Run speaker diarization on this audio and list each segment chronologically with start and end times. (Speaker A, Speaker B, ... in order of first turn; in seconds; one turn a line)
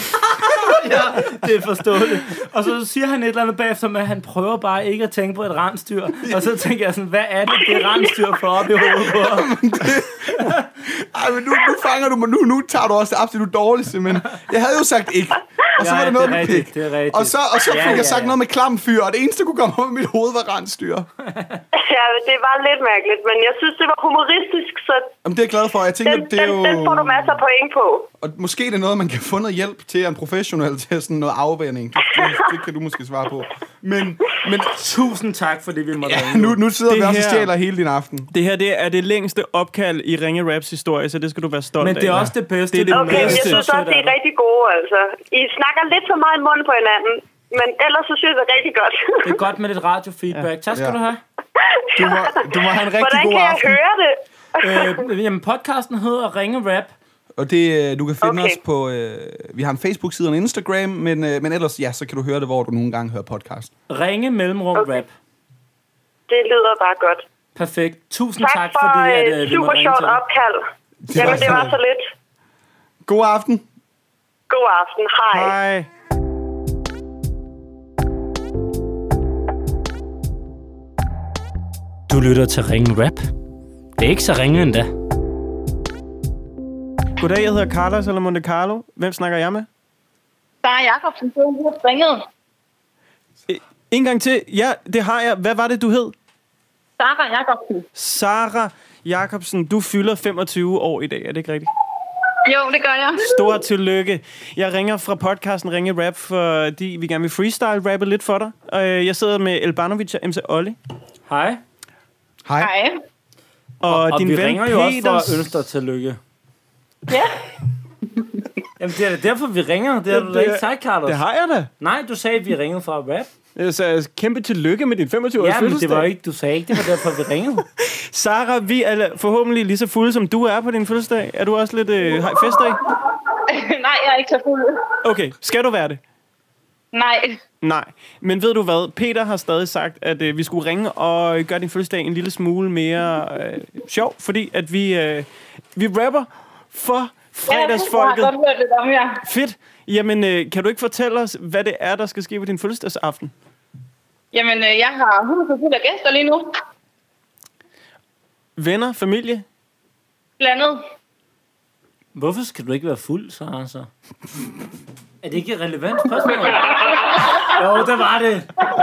Speaker A: 0.4-9.5
Speaker B: 7.7-8.1
Speaker C: 9.0-21.1
Speaker A: 10.4-10.6
Speaker A: 15.8-18.4
Speaker A: 21.3-21.6
Speaker B: 21.7-25.1
Speaker C: 25.2-27.3
Speaker B: 26.0-28.1
Speaker C: 28.2-34.7
Speaker B: 32.0-32.6
Speaker A: 34.8-36.6
Speaker C: 36.0-38.3
Speaker D: 36.9-37.5
Speaker D: 38.3-43.6
Speaker A: 41.8-44.1
Speaker B: 42.9-49.4
Speaker A: 49.2-51.2
Speaker B: 51.6-55.0
Speaker C: 52.0-53.8
Speaker A: 54.6-56.9
Speaker C: 57.4-63.7
Speaker B: 58.2-58.6
Speaker A: 63.9-65.1
Speaker B: 64.7-65.0
Speaker B: 66.3-67.2
Speaker A: 67.5-70.2
Speaker B: 68.4-72.0
Speaker C: 71.0-71.7
Speaker C: 73.0-73.6
Speaker B: 74.5-75.5
Speaker D: 75.3-75.9
Speaker A: 82.1-83.3
Speaker A: 84.0-84.9
Speaker D: 87.2-89.7
Speaker E: 90.6-92.3
Speaker D: 93.5-96.1
Speaker E: 97.0-97.9
Speaker D: 98.0-101.7
Speaker E: 102.5-103.6
Speaker D: 103.2-110.8
Speaker A: 111.3-111.6
Speaker C: 112.5-112.7
Speaker E: 112.6-113.0
Speaker D: 113.8-115.5
Speaker A: 113.8-116.2
Speaker A: 118.8-121.2
Speaker D: 120.1-121.7
Speaker A: 121.8-123.3
Speaker D: 123.5-126.1
Speaker A: 125.4-127.6
Speaker D: 127.8-132.8
Speaker E: 133.5-134.9
Speaker D: 135.0-136.0
Speaker E: 136.9-137.4
Speaker D: 137.6-148.3
Speaker E: 147.5-149.2
Speaker D: 149.2-153.3
Speaker E: 154.3-156.5
Speaker D: 158.6-159.4
Speaker E: 160.4-160.8
Speaker A: 162.1-163.9
Speaker A: 165.2-168.5
Speaker E: 166.9-167.4